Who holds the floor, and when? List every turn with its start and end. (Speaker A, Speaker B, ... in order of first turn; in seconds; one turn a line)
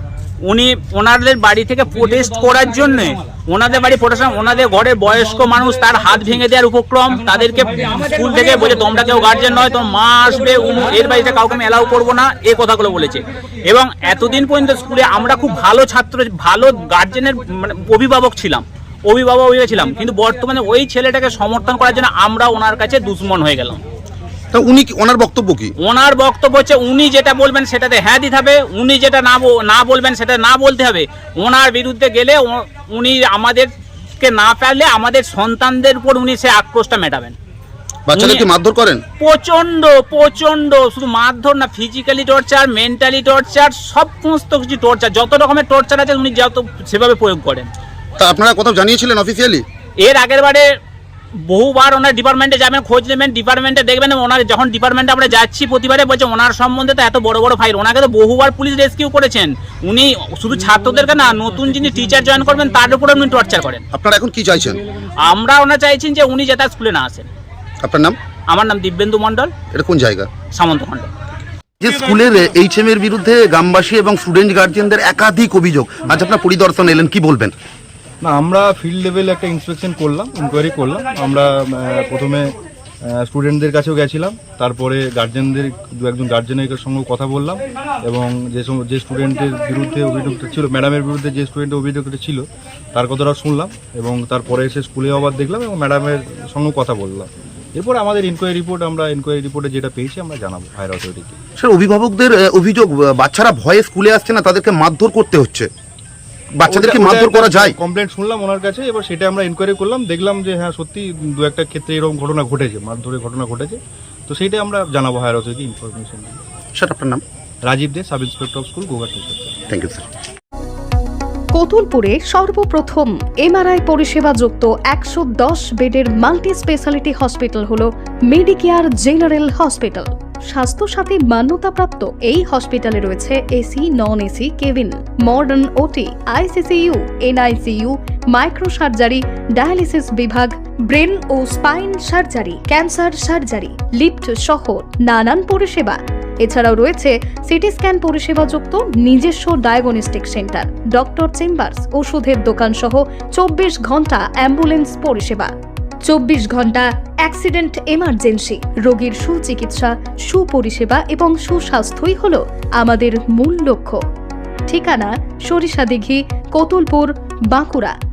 Speaker A: 0.4-23.8
Speaker B: 24.5-25.7
Speaker A: 25.8-37.4
Speaker B: 38.1-39.0
Speaker A: 38.1-38.5
Speaker A: 39.2-47.7
Speaker B: 48.2-49.6
Speaker A: 50.0-50.7
Speaker A: 51.5-63.8
Speaker B: 63.9-64.8
Speaker A: 65.2-67.3
Speaker B: 67.8-68.1
Speaker A: 68.5-69.5
Speaker B: 69.7-70.3
Speaker A: 70.5-71.1
Speaker B: 71.8-77.5
Speaker C: 78.3-82.5
Speaker C: 83.3-92.4
Speaker C: 93.0-101.4
Speaker B: 101.6-105.7
Speaker B: 106.6-107.8
Speaker C: 106.7-116.4
Speaker B: 116.8-117.2
Speaker C: 117.7-119.5
Speaker B: 119.7-120.0
Speaker D: 121.6-155.5
Speaker D: 156.1-164.0
Speaker D: 164.7-167.9